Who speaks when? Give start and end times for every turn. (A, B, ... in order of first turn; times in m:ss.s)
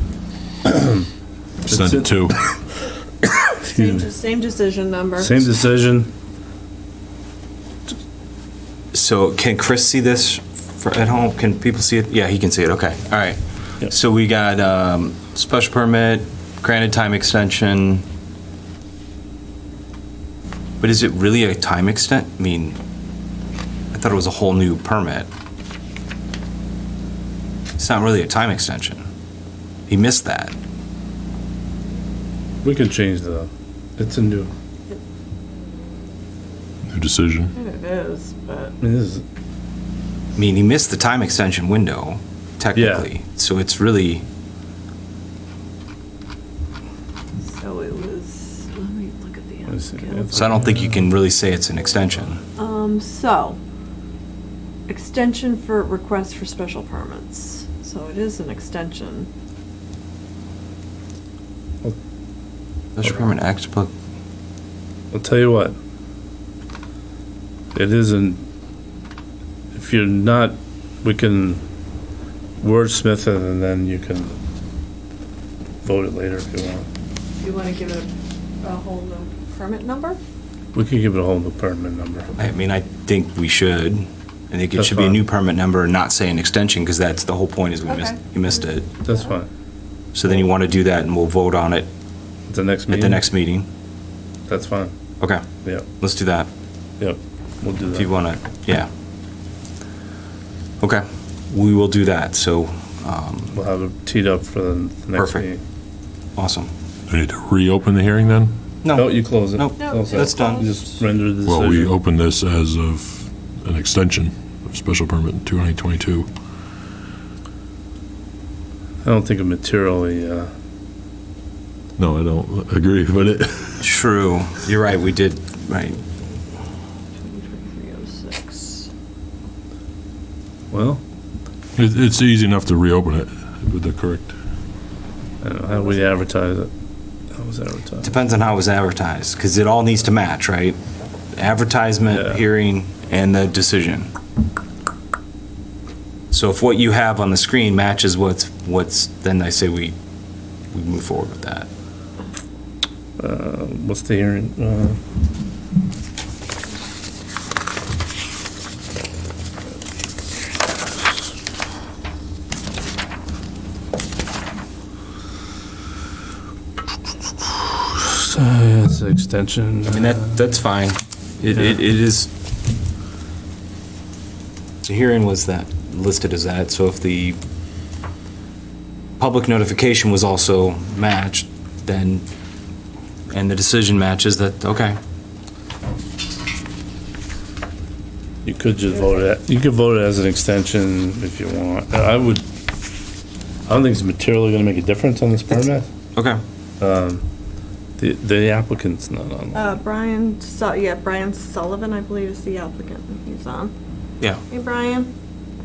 0:00.7-0:01.0 A
0:01.6-0:02.4 B
0:01.7-0:02.1 A
0:03.5-0:04.1 A
0:03.7-0:05.4 C
0:05.2-0:06.1 A
0:08.9-0:18.0 D
0:20.8-0:22.8 D
0:23.9-0:25.3 D
0:27.8-0:29.0 D
0:29.9-0:30.5 D
0:32.6-0:34.5 A
0:36.9-0:37.5 B
0:37.5-0:38.8 C
0:38.8-0:39.2 A
0:40.4-0:44.2 D
0:42.8-0:43.1 A
0:47.5-0:50.4 C
0:49.7-0:51.0 A
0:50.3-0:52.4 D
0:52.6-0:53.6 C
0:54.9-0:59.3 C
1:03.0-1:03.9 D
1:05.1-1:05.8 A
1:07.7-1:08.4 A
1:09.7-1:11.6 A
1:12.6-1:14.4 A
1:15.8-1:16.9 A
1:17.4-1:20.2 C
1:20.7-1:22.3 A
1:22.4-1:28.9 D
1:24.8-1:25.2 A
1:27.8-1:29.3 C
1:29.0-1:29.5 A
1:30.1-1:31.9 D
1:32.5-1:33.2 A
1:32.9-1:33.7 D
1:34.5-1:35.0 A
1:35.2-1:36.5 D
1:35.6-1:35.9 A
1:37.0-1:38.1 A
1:37.9-1:38.9 D
1:40.8-1:43.6 D
1:43.5-1:45.6 A
1:45.2-1:45.5 D
1:46.4-1:46.7 D
1:47.1-1:48.5 B
1:48.8-1:50.7 D
1:48.9-1:52.0 A
1:49.8-1:51.0 C
1:51.4-1:56.3 B
1:59.0-2:00.5 A
2:02.0-2:03.9 B
2:03.8-2:06.0 D
2:07.2-2:08.9 C
2:10.7-2:11.0 A
2:11.8-2:14.4 B
2:15.4-2:16.7 A
2:15.8-2:16.2 C
2:17.3-2:18.1 A
2:18.0-2:20.8 D
2:21.4-2:24.1 D
2:22.1-2:22.4 A
2:26.3-2:30.0 D
2:30.7-2:31.7 D
2:33.2-2:35.0 A
2:47.4-2:50.3 A
2:49.9-2:52.3 D
2:51.5-2:51.8 A
2:54.8-2:57.4 D
2:59.2-3:02.2 D
3:03.3-3:05.0 D
3:08.4-3:12.5 A
3:13.7-3:15.9 A
3:16.2-3:16.4 D
3:16.8-3:17.2 A
3:18.0-3:19.8 A
3:19.6-3:23.7 C
3:24.5-3:25.1 C